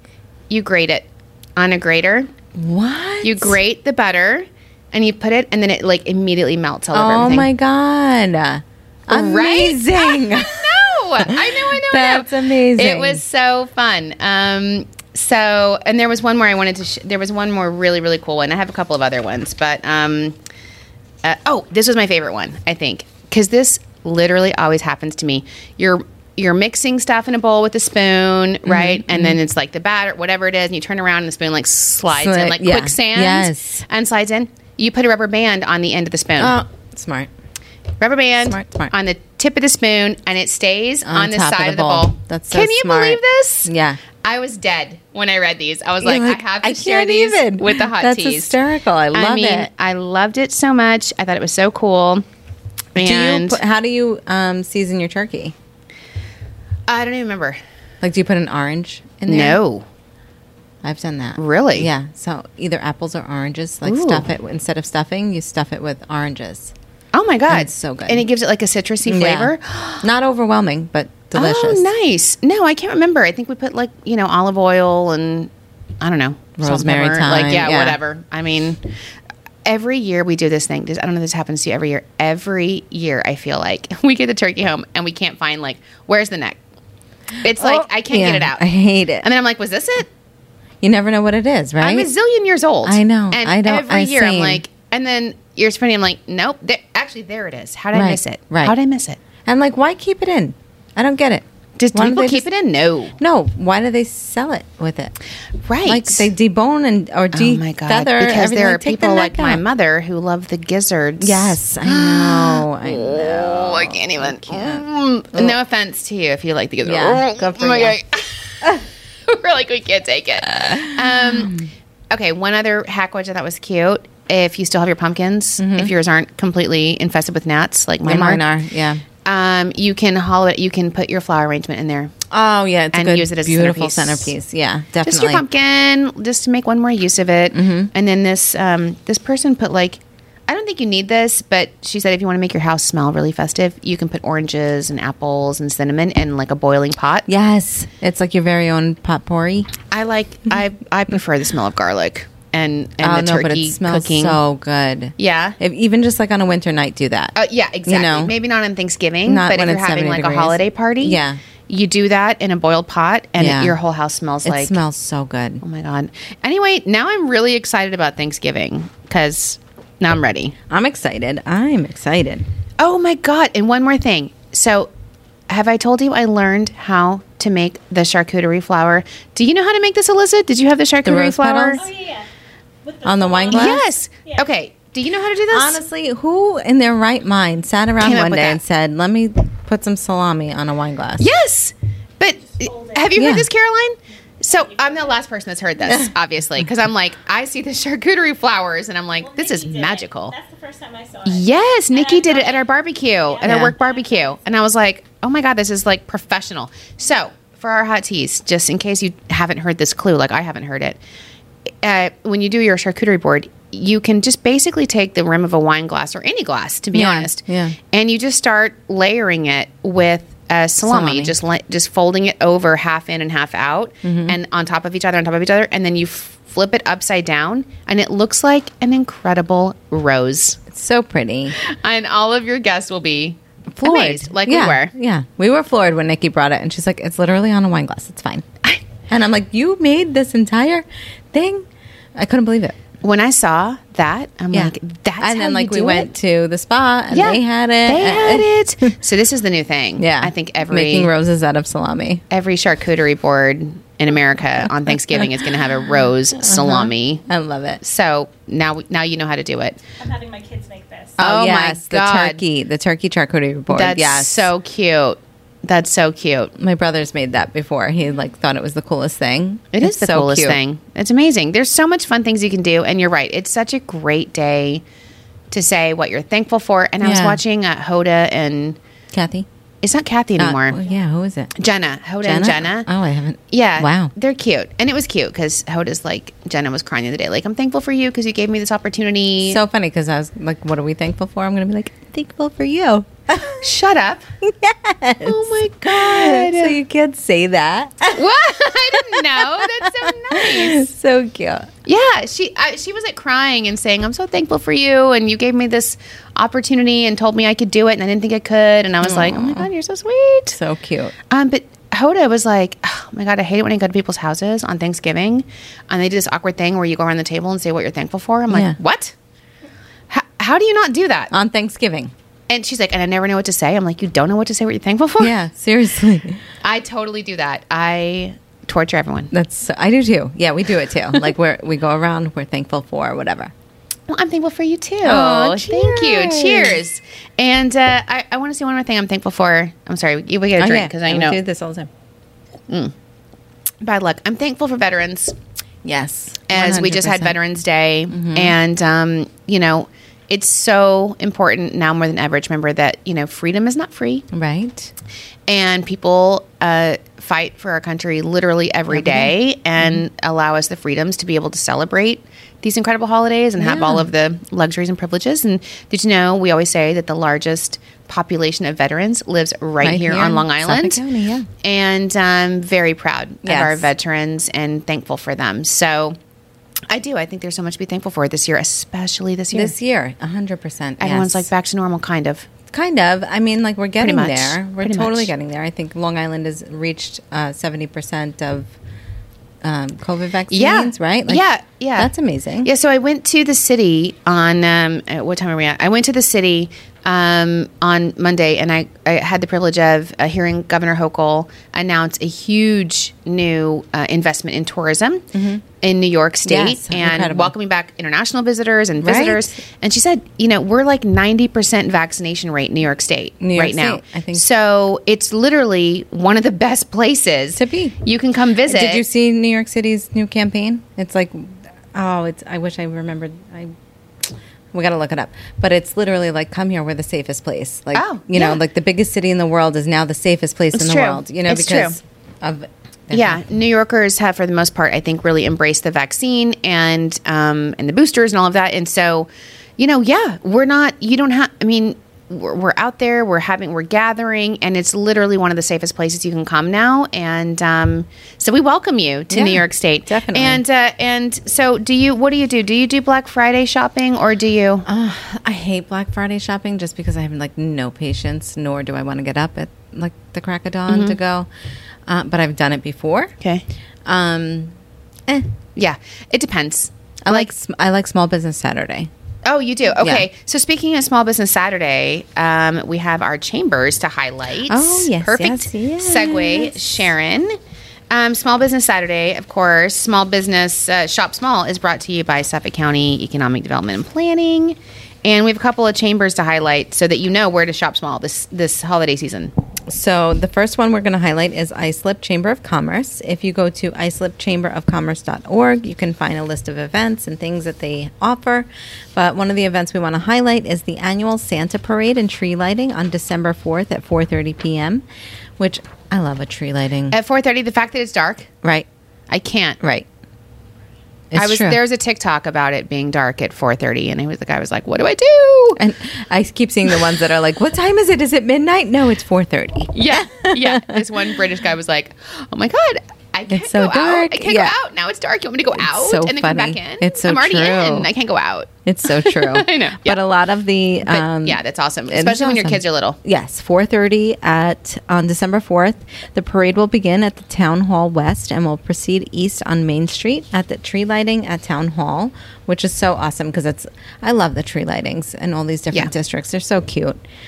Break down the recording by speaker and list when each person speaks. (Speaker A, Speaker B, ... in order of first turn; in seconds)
Speaker A: 0.5-2.3, 3.2-7.5, 9.1-20.4, 21.2-36.5, 38.0-43.7, 44.2-48.5, 49.1-52.2, 52.9-53.6, 56.9-57.6, 59.3-59.8, 61.4-61.9, 63.8-64.3, 67.1-70.0, 71.3-75.5, 76.0-78.8, 79.6-86.6, 87.4-88.7, 89.2-90.1, 91.8-99.2, 101.8-103.1, 105.6-106.3, 107.3-128.4, 129.2-132.1, 132.9-134.3, 135.0-147.3, 149.9-154.4, 155.2-155.6, 157.3-164.8, 165.6-170.5, 172.8-174.9, 175.5-181.9, 183.5-185.8, 188.0-188.6, 191.2-200.3, 201.2-211.0, 211.8-230.6, 231.5-234.9, 243.0-246.1, 247.1-251.1, 252.3-257.2, 257.8-259.8, 261.2-262.4, 263.7-266.5, 269.7-274.8, 275.5-278.8, 279.8-280.8, 281.6-282.9, 283.5-289.6, 293.6-294.2, 295.2-296.8, 298.1-300.9, 301.9-310.6, 311.3-319.1, 320.1-321.3, 322.5-325.3, 326.6-329.3, 334.1-341.4, 343.8-345.3, 346.5-354.2, 355.5-371.0, 371.6-376.2, 376.9-379.7, 381.0-382.5, 384.0-385.3, 390.5-392.1, 392.6-405.3, 405.8-419.0, 427.9-428.6, 430.7-432.0, 433.1-454.9, 460.9-461.1, 465.8-467.5, 469.4-477.5, 478.1-489.5, 507.1-508.5, 509.3-509.8, 511.4-515.8, 519.9-530.2, 531.0-533.2
Speaker B: 2.6-3.6, 6.9-13.2, 28.6-29.4, 32.1-33.8, 36.4-37.3, 38.4-38.9, 41.0-44.0, 46.0-49.7, 53.0-55.5, 58.0-59.6, 60.8-66.7, 67.5-68.2, 69.0-71.9, 76.6-78.0, 87.5-89.2, 90.8-92.1, 92.8-94.6, 97.9-98.7, 99.4-102.5, 103.2-105.1, 105.8-109.6, 111.2-115.5, 116.8-118.0, 120.5-121.7, 125.6-125.9, 128.1-129.0, 132.3-135.4, 137.5-137.9, 147.3-149.7, 153.0-158.3, 159.2-161.4, 163.4-163.8, 164.4-165.6, 170.7-172.4, 181.0-181.9, 183.0-183.8, 185.5-191.2, 193.2-193.5, 203.4-203.7, 216.9-217.8, 220.8-221.3, 224.0-224.3, 230.7-231.6, 233.7-238.4, 239.1-242.8, 244.5-248.9, 250.0-252.2, 254.6-255.5, 256.4-257.8, 261.2-264.5, 266.6-270.6, 277.0-277.4, 279.1-279.5, 280.4-281.5, 282.2-284.1, 289.4-293.6, 294.4-301.7, 309.0-309.7, 310.5-311.1, 318.5-318.8, 321.3-322.1, 325.2-326.4, 329.3-333.5, 335.0-336.8, 340.6-341.9, 345.8-347.4, 348.1-348.6, 354.3-354.9, 358.9-360.0, 363.6-364.1, 369.8-371.5, 373.4-373.9, 379.5-381.5, 382.7-388.7, 389.6-391.4, 392.0-392.7, 405.3-405.6, 406.4-407.5, 409.0-409.6, 413.4-414.4, 417.6-417.9, 418.6-423.7, 424.2-433.4, 449.3-450.6, 454.9-461.5, 462.1-463.3, 464.0-464.7, 465.3-465.5, 467.2-469.1, 470.0-470.3, 474.7-477.0, 489.9-505.0, 505.6-507.1, 509.8-510.1, 511.3-511.8, 515.8-521.2, 523.5-524.7, 525.8-528.1, 528.8-547.2
Speaker C: 181.8-182.3, 182.8-184.4, 192.6-193.2, 194.5-195.2, 199.2-202.7, 203.3-204.4, 260.0-261.2